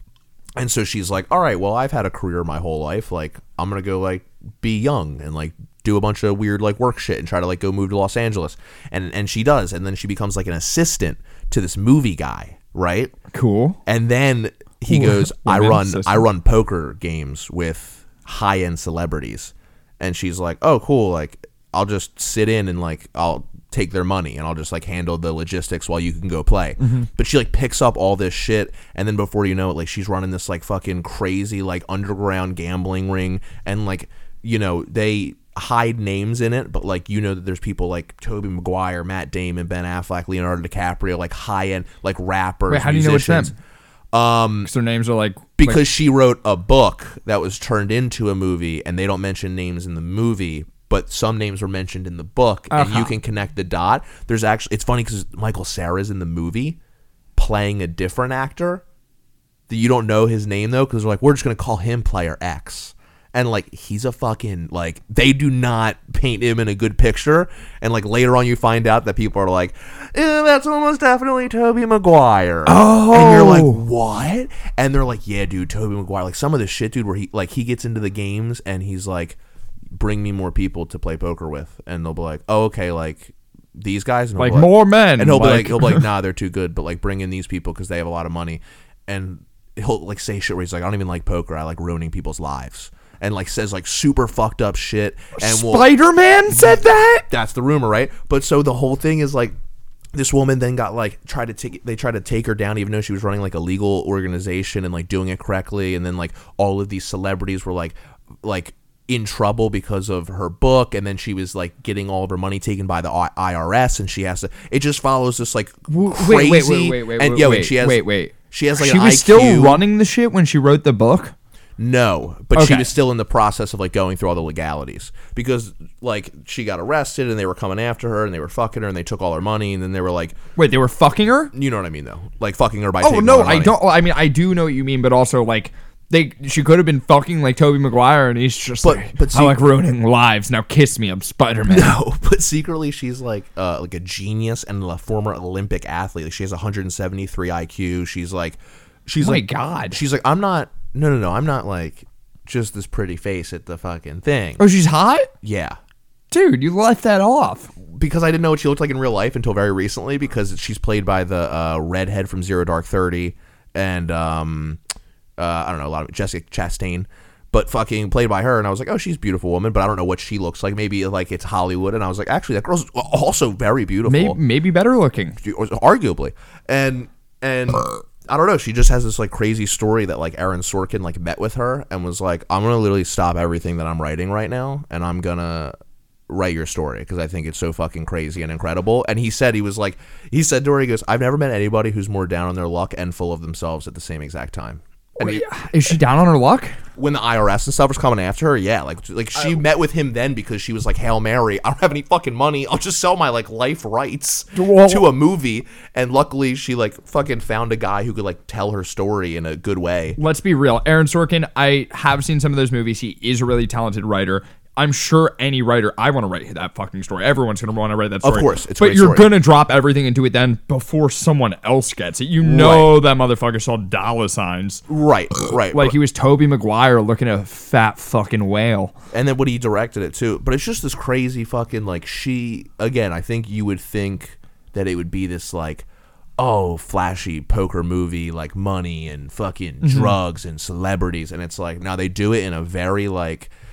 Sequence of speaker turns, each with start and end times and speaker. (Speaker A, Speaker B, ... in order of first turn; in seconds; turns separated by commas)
Speaker A: 0.6-13.1, Speaker B: 13.3-13.8, Speaker A: 13.8-43.5, Speaker B: 14.9-16.3, Speaker B: 26.8-27.1, Speaker B: 42.7-43.5, Speaker A: 44.1-44.7, Speaker B: 44.6-45.8, Speaker A: 45.6-56.8, Speaker B: 52.7-53.1, Speaker A: 57.4-58.8, Speaker A: 59.7-79.4, Speaker B: 72.7-73.8, Speaker A: 79.9-95.9, Speaker B: 84.4-86.1, Speaker B: 95.4-97.2, Speaker A: 97.3-99.5, Speaker A: 100.1-119.8, Speaker B: 115.9-121.3, Speaker A: 121.8-130.4, Speaker B: 122.5-122.9, Speaker B: 130.6-131.5, Speaker A: 131.5-133.7, Speaker B: 133.0-141.9, Speaker A: 138.8-139.6, Speaker A: 141.7-154.6, Speaker B: 149.2-150.0, Speaker B: 154.6-155.3, Speaker A: 155.4-155.8, Speaker B: 156.3-157.7, Speaker A: 157.9-164.8, Speaker A: 165.4-174.4, Speaker B: 174.0-175.4, Speaker A: 175.4-185.7, Speaker A: 186.3-195.4, Speaker B: 195.2-196.7, Speaker A: 196.9-210.2, Speaker B: 204.5-205.1, Speaker B: 210.2-224.8, Speaker A: 218.2-219.3, Speaker A: 222.4-223.0, Speaker A: 224.9-225.9, Speaker B: 225.7-228.9, Speaker A: 229.1-235.8, Speaker A: 236.4-243.5, Speaker B: 239.8-240.1